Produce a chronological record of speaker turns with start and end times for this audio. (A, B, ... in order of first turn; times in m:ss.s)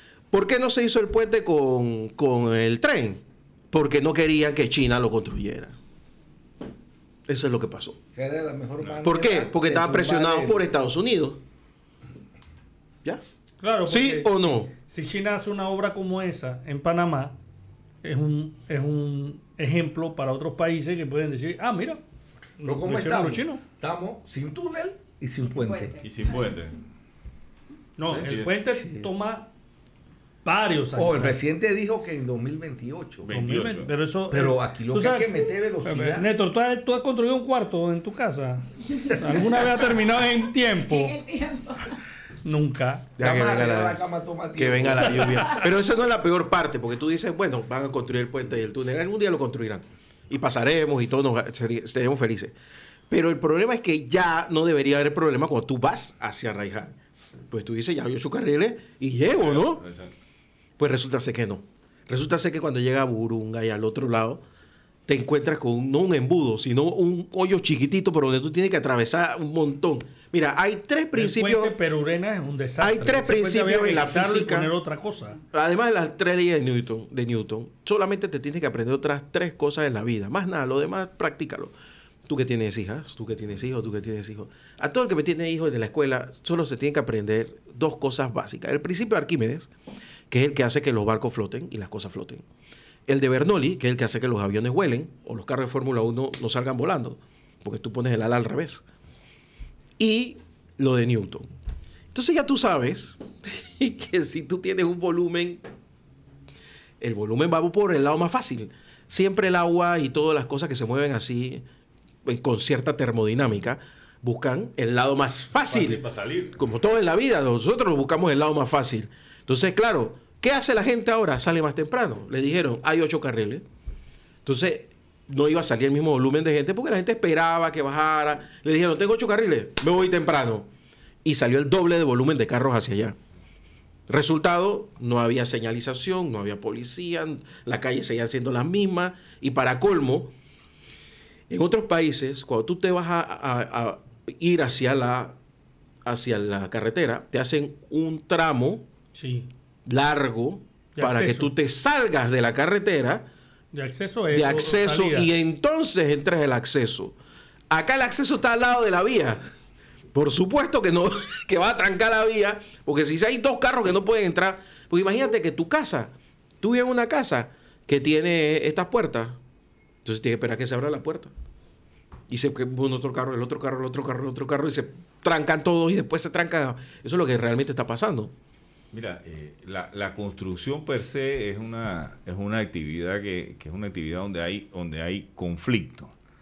0:00.3-0:05.8 A
0:07.3-0:08.0 A
0:08.2-0:10.6 B
0:09.0-0:11.4 A
0:13.6-0:17.4 C
0:13.9-0:14.7 A
0:18.0-0:22.0 C
0:22.6-0:23.6 C
0:22.6-0:26.0 B
0:25.4-0:26.5 D
0:26.0-0:26.8 E
0:28.0-0:29.5 C
0:28.1-0:28.6 E
0:30.4-0:31.4 C
0:31.0-0:33.3 B
0:33.2-0:33.9 E
0:33.3-0:35.3 C
0:34.3-0:36.3 B
0:35.8-0:41.2 C
0:40.7-0:42.0 D
0:42.4-0:43.1 C
0:43.2-0:44.0 A
0:43.2-0:45.5 B
0:44.6-0:52.5 A
0:53.1-0:57.0 A
0:57.5-0:59.8 A
0:59.3-1:00.1 E
1:00.8-1:04.4 A
1:05.1-1:11.8 A
1:11.2-1:15.4 C
1:12.8-1:14.7 A
1:15.5-1:21.7 A
1:22.3-1:29.7 A
1:30.3-1:32.4 A
1:33.1-1:38.8 A
1:40.0-1:41.5 A
1:42.1-1:45.6 A
1:47.0-1:51.6 A
1:52.2-1:56.0 A
1:55.7-1:56.6 E
1:56.6-2:03.6 A
2:04.4-2:10.7 A
2:11.2-2:13.2 A
2:14.1-2:20.3 A
2:21.5-2:25.4 A
2:26.0-2:28.8 A
2:29.1-2:29.5 C
2:29.9-2:33.3 A
2:31.0-2:31.5 C
2:33.7-2:35.3 C
2:34.3-2:37.2 A
2:37.7-2:39.4 A
2:40.1-2:49.4 A
2:50.0-2:51.3 A
2:52.3-2:58.3 A
2:58.9-3:06.1 E